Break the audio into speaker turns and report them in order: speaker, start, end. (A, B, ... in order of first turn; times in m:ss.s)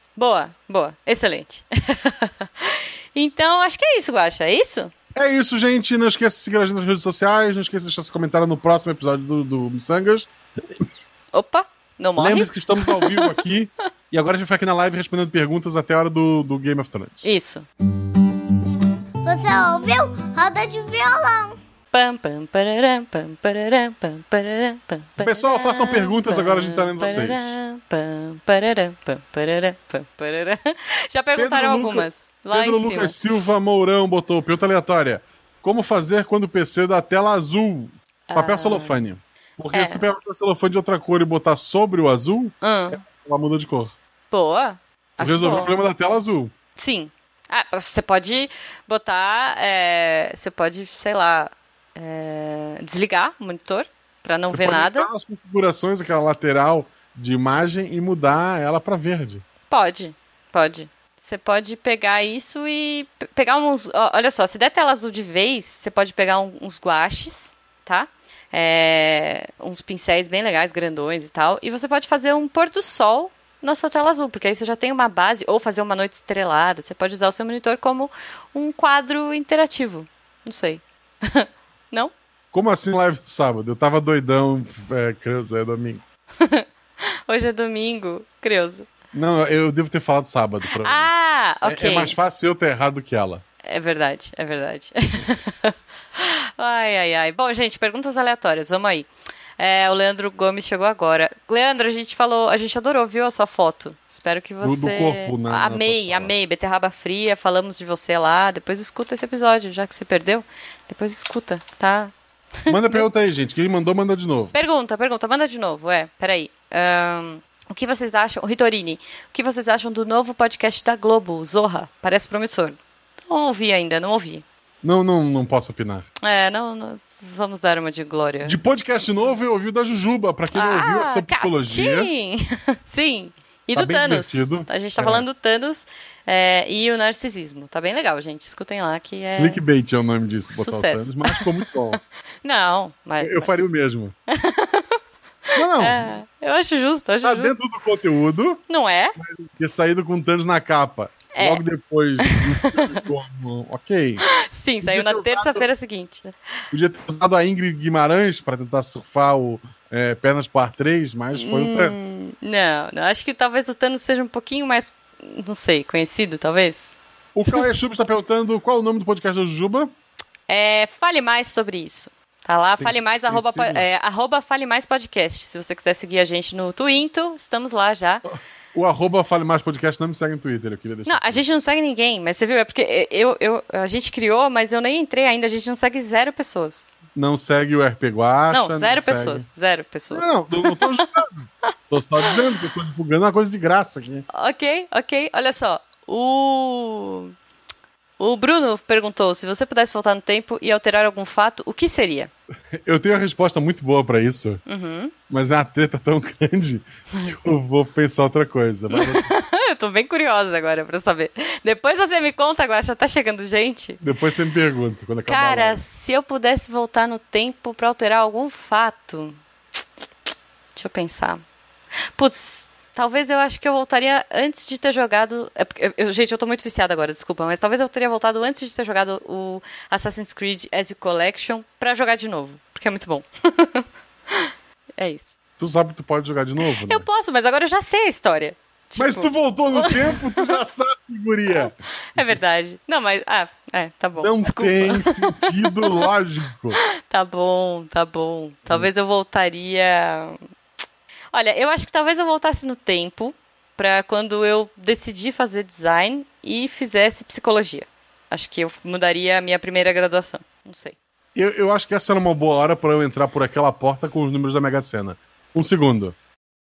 0:00.2-0:04.9 A
0:05.1-0:10.8 B
0:11.3-0:13.3 A
0:12.2-0:17.3 B
0:17.2-0:17.7 A
0:19.2-0:21.6 C
0:21.9-0:33.2 A
0:25.2-0:27.6 B
0:31.4-0:43.9 B
0:38.3-0:38.9 A
0:39.7-0:40.0 A
0:42.6-0:43.0 A
0:44.3-0:45.7 A
0:45.2-0:46.5 B
0:46.8-0:55.1 A
0:54.5-0:59.4 B
0:59.7-1:22.1 A
1:22.5-1:26.0 B
1:26.4-1:26.6 A
1:27.3-1:28.9 A
1:29.1-1:33.4 B
1:30.8-1:32.2 A
1:33.6-1:52.1 A
1:44.6-1:46.3 B
1:52.6-1:53.0 A
1:52.7-1:54.5 B
1:54.5-2:04.4 A
2:04.8-2:06.1 B
2:06.2-2:08.6 A
2:08.4-2:12.1 B
2:10.5-2:19.6 A
2:13.7-2:15.3 B
2:19.4-2:22.0 B
2:20.5-2:21.5 A
2:22.4-2:23.7 A
2:23.2-2:24.1 B
2:24.3-2:25.0 A
2:25.5-2:26.2 B
2:25.7-2:27.5 A
2:27.2-2:28.6 B
2:28.7-2:29.2 A
2:29.2-2:34.2 B
2:31.3-2:31.6 A
2:32.2-2:33.0 A
2:34.3-2:36.3 A
2:34.8-2:35.7 B
2:36.7-2:41.9 B
2:41.3-2:47.7 A
2:47.3-2:49.9 B
2:50.5-2:58.2 A
2:52.8-2:53.8 B
2:58.7-3:01.4 B
3:01.0-3:07.0 A
3:07.1-3:09.4 B
3:08.5-3:11.1 A
3:10.1-3:14.2 B
3:14.3-3:17.3 A
3:18.2-3:22.3 A
3:22.7-3:24.6 B
3:24.6-3:25.1 A
3:25.3-3:29.3 B
3:28.9-3:34.0 A
3:34.0-3:35.8 B
3:35.3-3:39.4 A
3:40.7-3:41.4 A
3:42.2-3:55.4 A
3:55.6-3:57.0 B
3:56.8-4:00.6 A
3:59.0-4:02.4 B
4:01.5-4:06.0 A
4:04.2-4:06.8 B
4:07.1-4:10.4 A
4:11.3-4:21.0 A
4:21.3-4:26.2 B